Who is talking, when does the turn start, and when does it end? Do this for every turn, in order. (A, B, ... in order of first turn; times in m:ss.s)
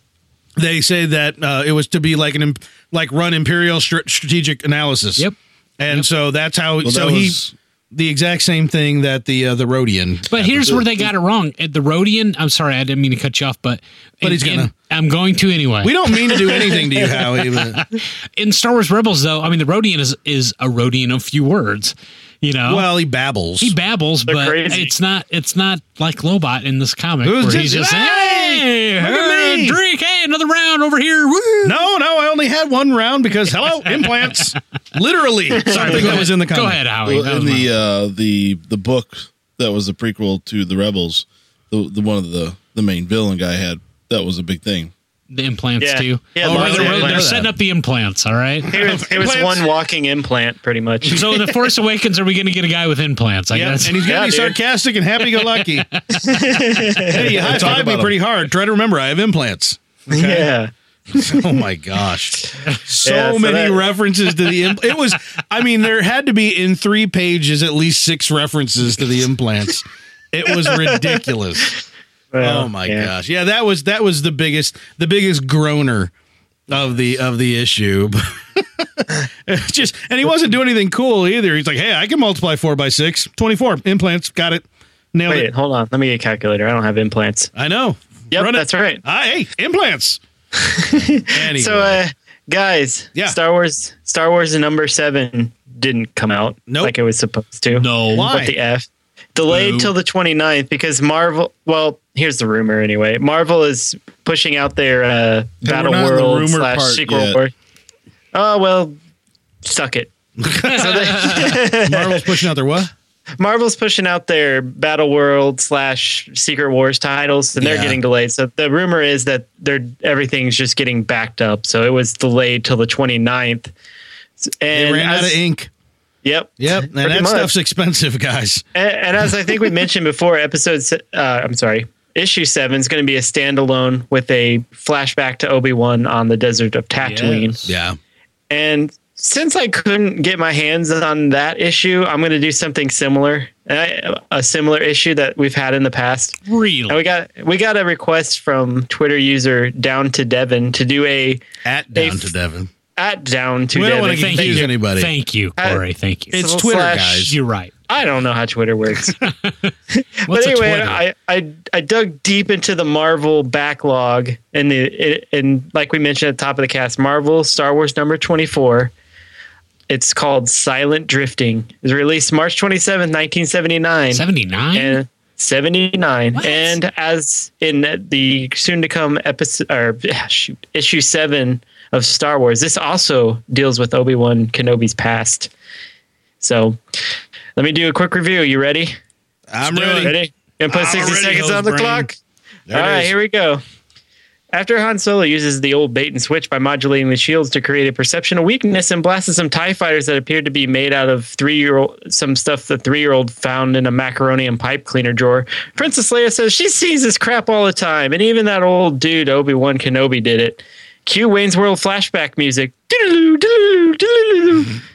0:00.6-0:05.3 A
0:05.8-0:10.8 A
0:06.8-0:07.5 B
0:10.3-0:22.9 C
0:14.2-0:14.7 A
0:15.8-0:17.8 A
0:22.7-0:23.8 A
0:23.6-0:31.8 C
0:24.3-0:24.9 D
0:27.2-0:29.8 A
0:31.6-0:36.8 A
0:35.6-0:37.7 C
0:37.0-0:44.9 B
0:45.3-0:48.7 C
0:45.8-0:47.3 D
0:46.4-0:47.5 A
0:48.7-0:49.7 A
0:48.7-0:51.4 D
0:51.1-0:54.2 C
0:53.5-0:55.9 A
0:54.0-0:54.6 D
0:55.4-0:56.6 C
0:56.1-0:57.8 D
0:57.0-1:00.5 A
0:57.1-0:58.2 B
1:00.1-1:01.5 D
1:01.1-1:11.8 A
1:03.0-1:03.9 D
1:10.5-1:11.2 D
1:12.3-1:13.1 D
1:12.4-1:16.1 A
1:16.7-1:25.5 A
1:25.3-1:27.5 D
1:27.5-1:30.2 A
1:28.3-1:29.0 D
1:30.6-1:47.5 D
1:31.2-1:32.0 A
1:36.7-1:36.9 A
1:37.7-1:38.3 C
1:38.1-1:38.5 A
1:39.5-1:39.9 C
1:45.6-1:47.4 B
1:48.3-1:49.0 D
1:49.6-1:50.1 D
1:50.4-1:52.9 A
1:50.6-1:52.3 D
1:50.8-1:51.6 C
1:53.4-2:03.7 D
1:57.6-1:58.0 A
2:04.4-2:05.4 D
2:04.7-2:05.7 A
2:06.2-2:07.5 D
2:06.6-2:08.6 A
2:08.8-2:17.6 D
2:17.0-2:17.7 C
2:17.7-2:18.0 A
2:18.5-2:26.4 D
2:26.5-2:27.0 C
2:26.9-2:31.4 D
2:31.6-2:32.7 A
2:32.0-2:32.3 D
2:33.0-2:34.7 D
2:33.7-2:35.1 A
2:34.2-2:36.4 C
2:35.6-2:37.3 D
2:36.3-2:37.4 A
2:37.3-2:37.7 C
2:37.9-2:39.2 D
2:39.2-2:39.7 C
2:40.0-2:48.9 D
2:40.3-2:41.0 C
2:49.9-2:54.2 D
2:54.1-2:55.0 C
2:54.7-3:05.5 D
2:56.4-2:56.8 C
3:06.4-3:06.8 D
3:07.6-3:09.0 D
3:09.5-3:10.2 A
3:09.6-3:12.1 D
3:10.7-3:12.1 A
3:12.7-3:13.1 A
3:12.7-3:13.6 D
3:14.5-3:34.8 D